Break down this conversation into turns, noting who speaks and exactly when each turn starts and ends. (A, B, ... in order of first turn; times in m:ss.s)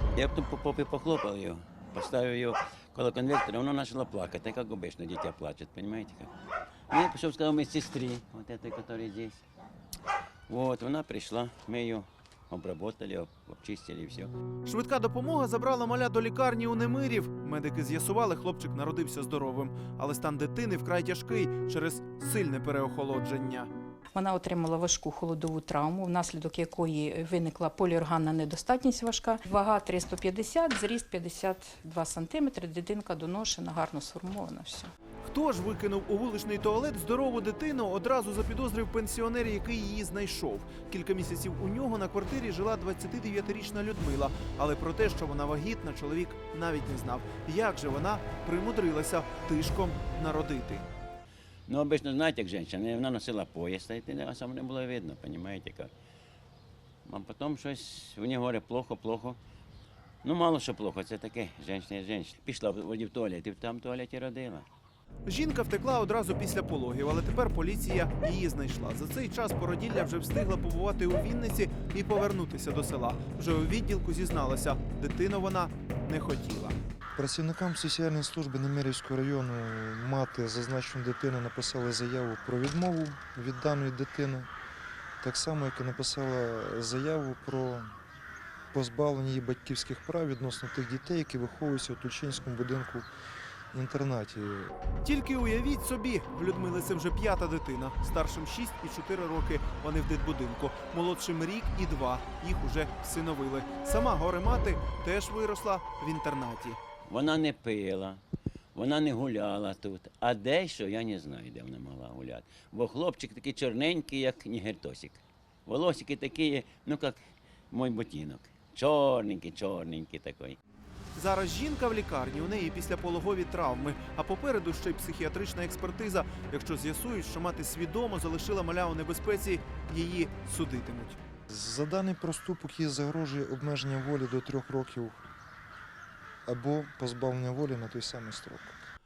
0:00.2-0:06.3 A
0:06.9-0:09.4 A
0:10.5-0:14.3 A
0:14.6-0:23.7 B
0:24.1-0:34.9 C
0:35.2-0:50.9 B
0:51.7-0:55.9 A
0:57.1-0:59.4 A
1:00.2-1:04.7 A
1:05.3-1:16.8 B
1:17.2-1:24.5 D
1:25.2-1:27.9 D
1:28.7-1:33.1 D
1:33.7-1:34.7 D
1:35.0-1:46.8 B
1:47.1-1:48.2 A
1:48.8-1:57.2 A
1:57.7-2:00.6 A
2:01.2-2:11.2 B
2:11.5-2:15.2 D
2:16.5-2:18.8 D